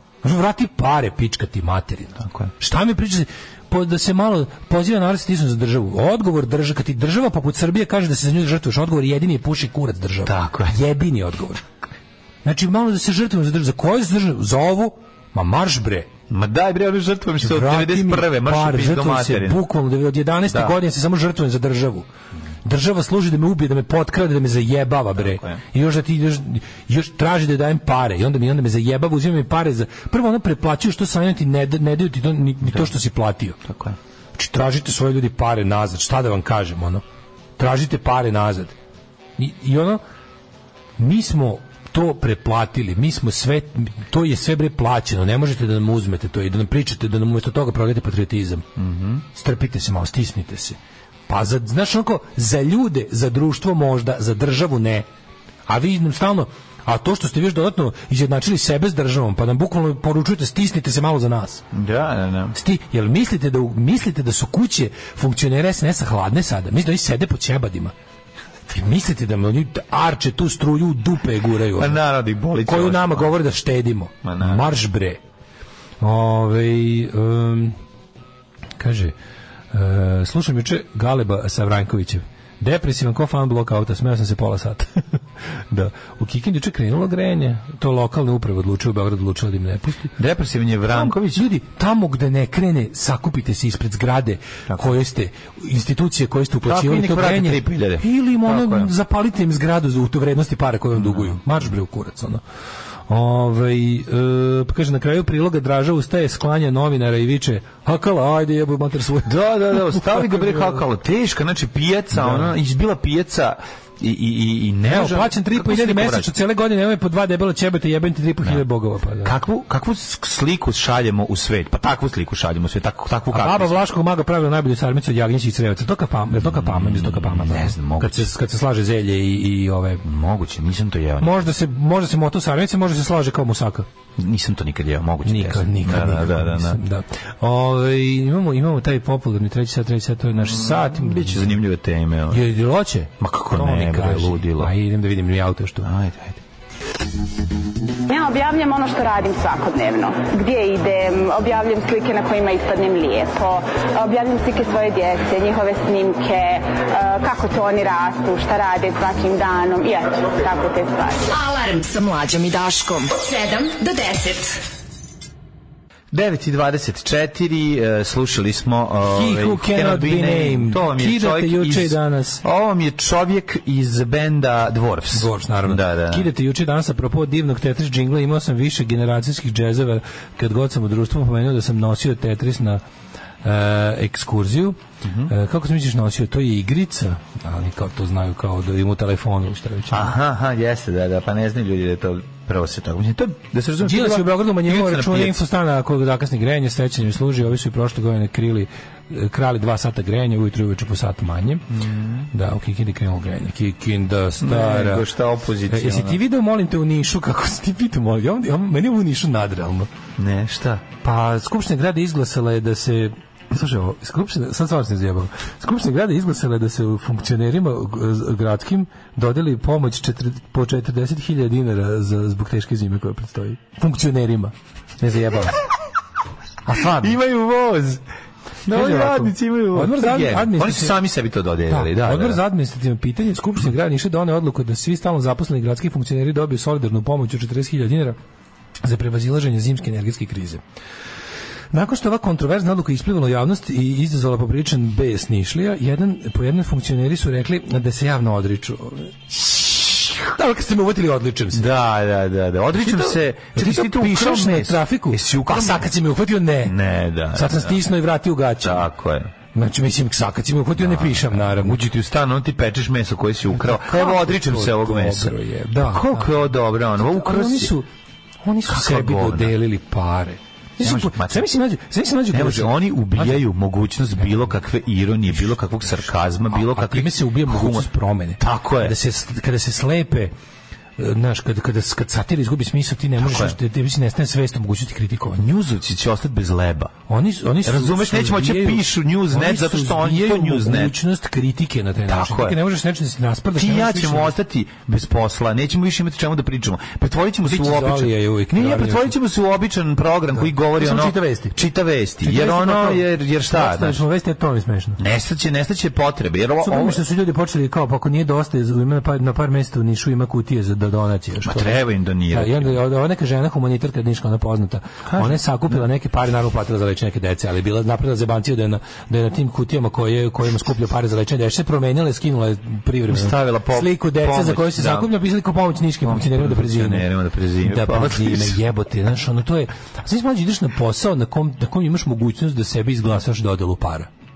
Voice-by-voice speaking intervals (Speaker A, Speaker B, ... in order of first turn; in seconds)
Speaker A: 0.2-11.6, 12.4-16.1, 17.4-22.1, 22.6-33.6, 34.4-37.0, 37.6-38.7, 39.4-40.0, 41.0-48.7, 49.3-55.0, 55.7-61.6, 62.5-67.9, 68.7-72.0, 72.6-75.2, 76.0-77.8, 78.8-79.1, 79.7-85.1, 85.7-90.1, 90.9-102.4, 103.1-110.8, 112.1-112.5, 114.8-119.3, 123.3-130.0, 131.2-133.8, 135.2-141.5, 142.3-145.9, 169.1-172.4, 175.1-182.8, 183.4-190.1, 193.8-201.6, 202.3-205.1, 205.7-209.9, 211.0-225.6, 226.7-227.2, 228.7-230.9, 231.7-238.2, 238.8-240.6, 241.7-251.7, 252.8-256.8, 257.3-258.9, 259.5-261.8, 263.5-266.3, 267.0-267.9, 268.4-273.4, 276.5-280.3, 281.0-285.4, 287.1-294.4, 297.4-299.2, 300.4-301.6, 302.2-305.0, 306.6-327.1, 327.6-334.1
Speaker B: 2.2-2.5, 10.2-10.8, 16.3-19.7, 20.5-20.7, 25.1-25.6, 33.6-34.0, 48.8-49.2, 61.7-62.5, 71.7-73.3, 74.2-74.7, 90.2-91.4, 96.6-98.9, 101.0-101.4, 109.2-116.3, 119.2-123.8, 126.4-128.3, 130.0-131.5, 134.2-136.8, 140.4-142.4, 143.2-144.7, 145.8-146.4, 166.1-176.3, 185.0-185.3, 189.9-195.4, 201.7-202.3, 204.4-206.2, 210.2-210.8, 226.8-228.0, 228.7-232.4, 251.5-255.9, 256.6-257.8, 258.6-259.3, 260.8-267.7, 268.6-269.5, 270.8-271.5, 272.3-278.9, 283.2-283.6, 285.4-286.9, 287.6-290.9, 292.1-292.6, 293.5-304.0, 305.0-307.0, 311.4-312.8, 315.1-315.8, 323.1-325.1, 326.0-328.6
Speaker C: 148.1-161.2
Speaker D: 161.3-164.6